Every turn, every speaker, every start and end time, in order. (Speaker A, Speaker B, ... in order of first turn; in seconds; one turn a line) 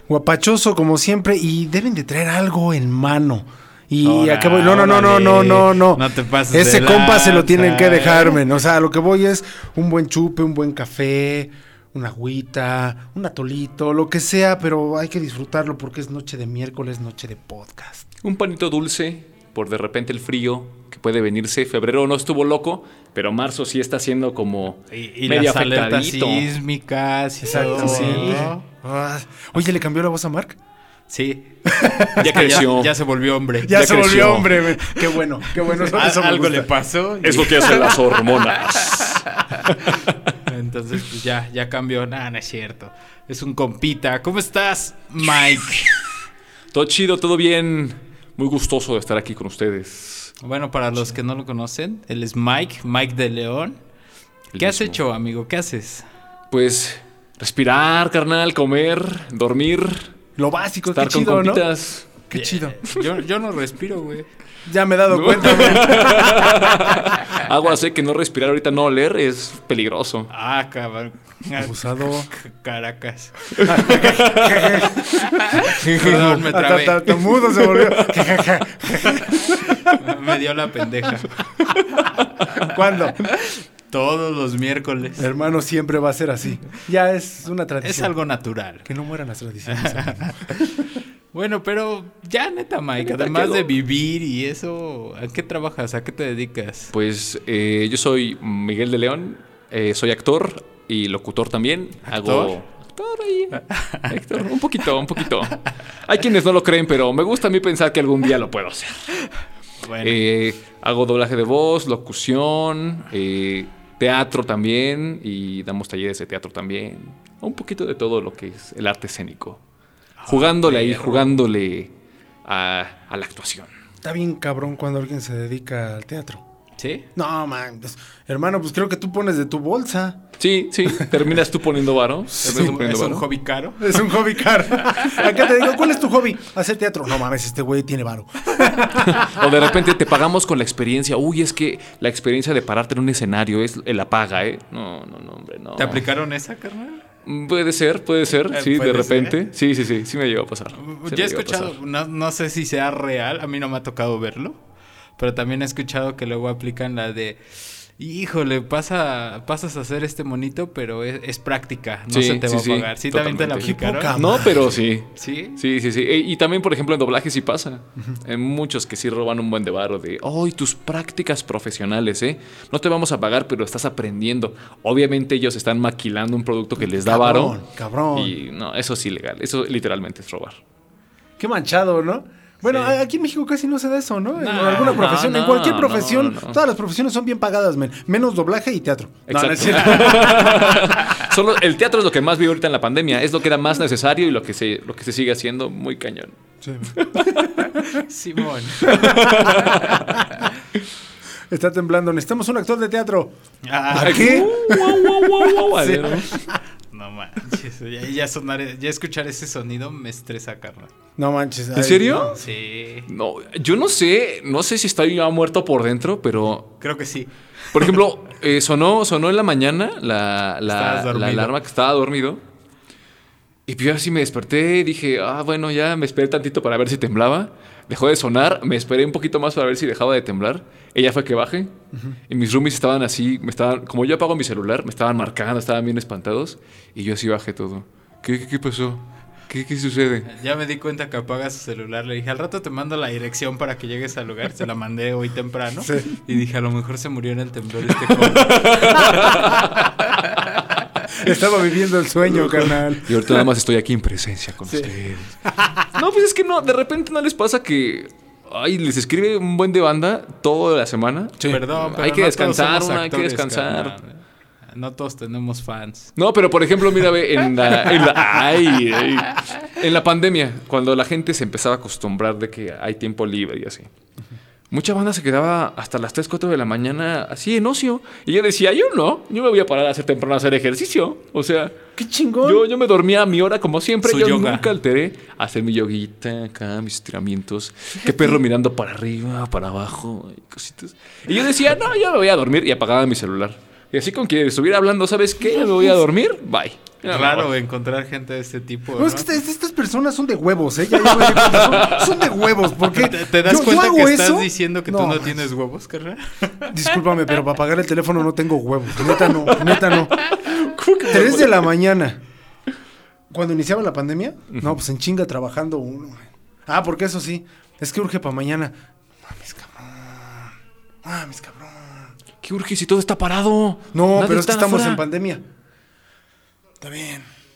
Speaker A: 0.1-18.1
Speaker B: 4.0-8.4
Speaker C: 18.2-26.5
Speaker B: 24.9-28.6
Speaker A: 27.4-30.6
Speaker C: 27.5-28.5
Speaker B: 31.1-34.0
Speaker A: 31.7-32.7
Speaker C: 32.2-33.0
Speaker A: 33.6-36.7
Speaker C: 33.7-34.7
Speaker B: 35.6-38.0
Speaker C: 37.2-40.2
Speaker B: 40.5-45.9
Speaker C: 46.7-50.4
Speaker B: 50.4-53.8
Speaker C: 54.5-55.0
Speaker B: 54.5-56.0
Speaker C: 56.5-60.1
Speaker A: 60.4-61.7
Speaker C: 60.9-62.1
Speaker A: 62.3-62.8
Speaker B: 62.3-64.3
Speaker A: 64.7-66.5
Speaker C: 65.1-70.3
Speaker B: 70.3-74.0
Speaker A: 71.6-72.3
Speaker C: 73.5-74.9
Speaker A: 73.7-80.0
Speaker B: 75.4-77.2
Speaker C: 77.8-78.3
Speaker B: 79.8-81.3
Speaker A: 82.5-83.2
Speaker B: 83.4-85.3
Speaker A: 85.2-88.1
Speaker B: 87.8-88.9
Speaker A: 88.8-90.9
Speaker B: 89.7-96.9
Speaker C: 93.0-93.7
Speaker C: 96.9-109.2
Speaker B: 102.1-102.5
Speaker B: 103.7-104.0
Speaker B: 109.8-110.2
Speaker C: 110.0-119.6
Speaker B: 120.2-121.4
Speaker C: 120.3-121.9
Speaker C: 122.5-123.7
Speaker A: 124.0-126.4
Speaker B: 126.8-127.1
Speaker A: 127.2-130.2
Speaker C: 130.4-133.3
Speaker B: 132.4-134.1
Speaker A: 132.4-132.8
Speaker A: 133.8-139.4
Speaker C: 139.0-146.1
Speaker B: 145.8-147.0
Speaker C: 147.2-151.8
Speaker B: 148.5-149.5
Speaker B: 150.8-154.6
Speaker B: 155.2-164.2
Speaker C: 162.1-177.6
Speaker A: 163.6-164.8
Speaker B: 165.2-165.6
Speaker A: 176.8-178.4
Speaker C: 178.1-180.6
Speaker A: 181.4-190.7
Speaker B: 184.4-185.0
Speaker C: 184.8-186.6
Speaker C: 189.3-196.3
Speaker A: 196.6-198.0
Speaker C: 196.9-197.4
Speaker B: 197.9-199.6
Speaker C: 198.8-200.2
Speaker A: 198.8-199.7
Speaker A: 201.5-203.3
Speaker B: 203.6-204.5
Speaker A: 203.9-206.6
Speaker C: 203.9-206.4
Speaker B: 206.9-210.9
Speaker A: 211.2-212.4
Speaker C: 211.8-212.4
Speaker B: 212.3-213.1
Speaker C: 213.1-216.7
Speaker B: 216.8-218.0
Speaker C: 217.7-222.4
Speaker B: 220.7-221.5
Speaker C: 223.7-231.8
Speaker C: 232.3-240.3
Speaker B: 240.3-249.3
Speaker A: 245.8-246.2
Speaker C: 248.1-249.9
Speaker A: 251.1-253.4
Speaker C: 252.4-263.9
Speaker A: 254.7-254.9
Speaker A: 255.4-255.9
Speaker B: 261.4-266.1
Speaker C: 266.2-273.9
Speaker C: 274.7-281.8
Speaker A: 282.0-282.7
Speaker C: 282.4-297.5
Speaker B: 284.0-284.7
Speaker A: 288.0-288.4
Speaker B: 297.1-299.3
Speaker A: 298.9-305.4
Speaker C: 301.0-302.4
Speaker B: 302.9-306.7
Speaker A: 306.7-310.2
Speaker C: 309.1-311.7
Speaker A: 311.1-312.2
Speaker A: 313.3-322.1
Speaker C: 314.5-314.8
Speaker C: 322.4-325.0
Speaker A: 323.9-325.4
Speaker A: 326.8-327.3